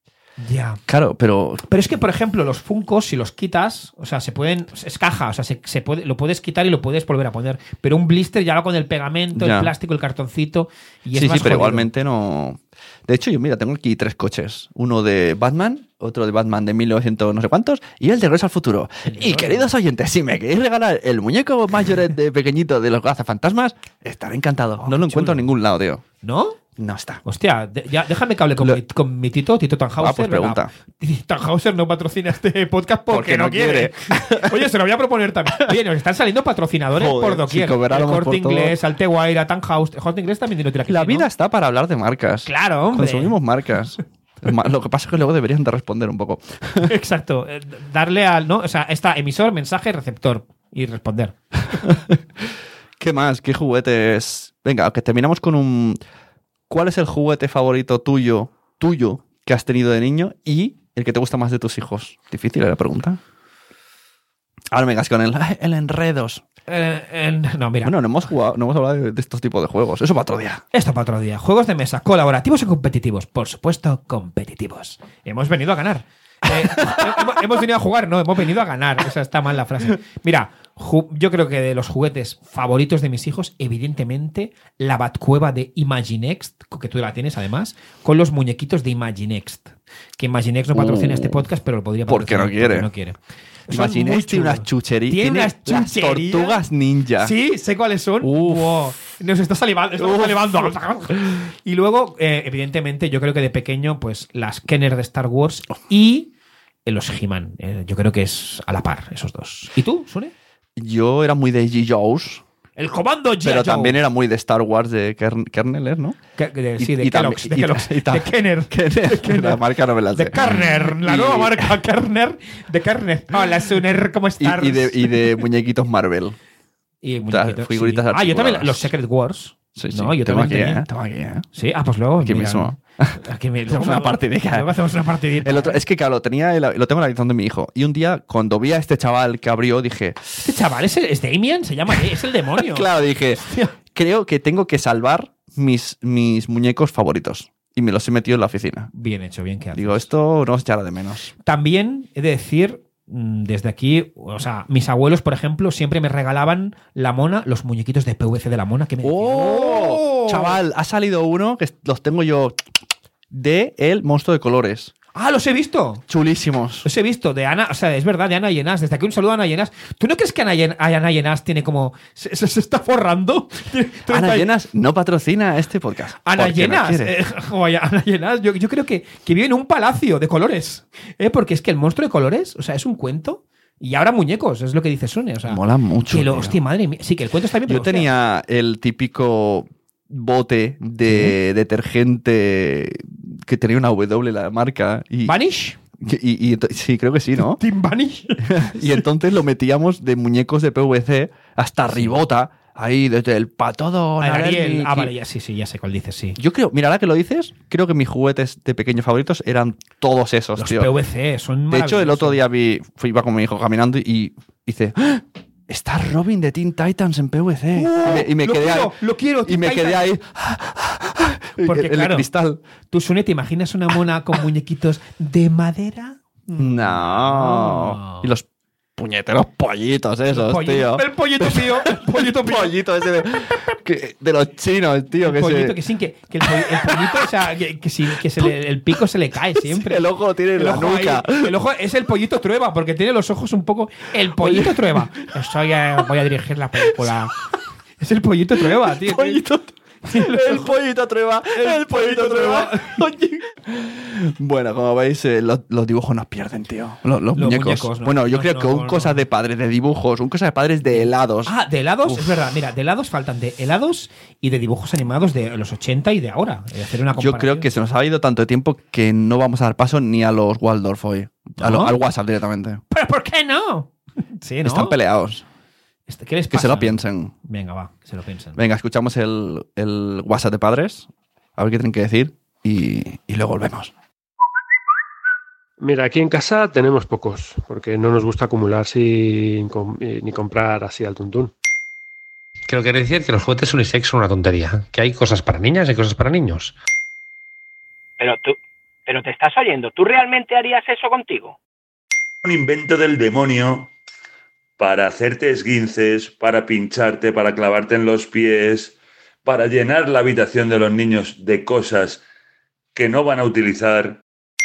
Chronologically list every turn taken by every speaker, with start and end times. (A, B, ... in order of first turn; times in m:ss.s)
0:00.4-0:00.8 A
0:00.9-0:01.6 B
0:01.7-0:11.9 A
0:09.3-0:09.7 B
0:11.1-0:26.0 B
0:19.0-0:19.7 A
0:24.8-0:25.5 A
0:26.2-0:26.6 A
0:26.8-0:27.2 B
0:27.2-0:41.3 A
0:30.0-0:30.7 B
0:33.1-0:34.7 B
0:36.9-0:38.8 B
0:40.9-0:46.9 B
0:42.4-0:43.4 A
0:46.8-0:51.4 A
0:51.7-0:56.0 B
0:56.7-1:03.2 B
1:04.7-1:06.4 B
1:06.7-1:08.0 A
1:07.8-1:10.6 B
1:10.7-1:33.2 A
1:16.6-1:17.4 B
1:30.7-1:31.4 B
1:32.1-1:32.9 B
1:33.7-1:36.6 A
1:33.7-1:37.3 B
1:37.2-1:46.3 A
1:38.2-1:38.9 B
1:40.0-1:41.5 B
1:46.8-1:50.3 A
1:50.8-1:52.4 B
1:52.8-1:54.0 A
1:53.4-1:56.2 B
1:56.4-1:59.6 A
1:56.8-2:01.8 B
2:00.1-2:05.4 A
2:04.4-2:06.4 B
2:07.0-2:10.8 A
2:07.3-2:08.9 B
2:09.7-2:11.4 B
2:11.5-2:15.8 A
2:12.2-2:14.7 B
2:15.4-2:20.4 B
2:20.4-2:23.7 A
2:22.5-2:28.9 B
2:28.9-2:30.1 A
2:29.7-2:31.3 B
2:31.4-2:40.6 A
2:39.0-2:42.6 B
2:43.3-2:44.9 B
2:45.1-2:46.0 A
2:46.1-2:46.9 B
2:46.8-2:54.5 A
2:54.1-2:57.2 B
2:56.2-3:08.1 A
3:05.4-3:06.6 B
3:07.6-3:15.4 B
3:11.0-3:11.4 A
3:15.2-3:15.8 A
3:16.0-3:17.6 B
3:17.4-3:19.0 A
3:18.4-3:25.1 B
3:21.9-3:22.2 A
3:24.2-3:26.4 A
3:26.4-3:30.9 B
3:30.6-3:32.4 A
3:31.7-3:42.6 B
3:37.7-3:40.2 A
3:41.6-3:42.3 A
3:42.9-3:48.3 A
3:46.6-3:55.8 B
3:50.3-3:52.8 A
3:55.2-4:07.4 A
3:56.4-3:57.3 B
3:59.5-4:01.5 B
4:04.4-4:05.3 B
4:07.0-4:07.2 B
4:08.0-4:09.4 A
4:08.6-4:22.4 B
4:10.0-4:10.7 A
4:11.5-4:13.0 A
4:17.4-4:19.2 A
4:20.9-4:27.7 A
4:27.2-4:32.8 B
4:31.6-4:32.0 A
4:32.9-4:35.0 A
4:34.6-4:35.4 B
4:36.1-4:38.6 A
4:36.5-4:37.3 B
4:38.6-4:43.9 B
4:45.8-4:51.5 C
4:52.7-4:56.8 D
4:58.2-5:01.6 E
5:02.4-5:03.9 F
5:04.8-5:12.2 F
5:12.9-5:14.2 F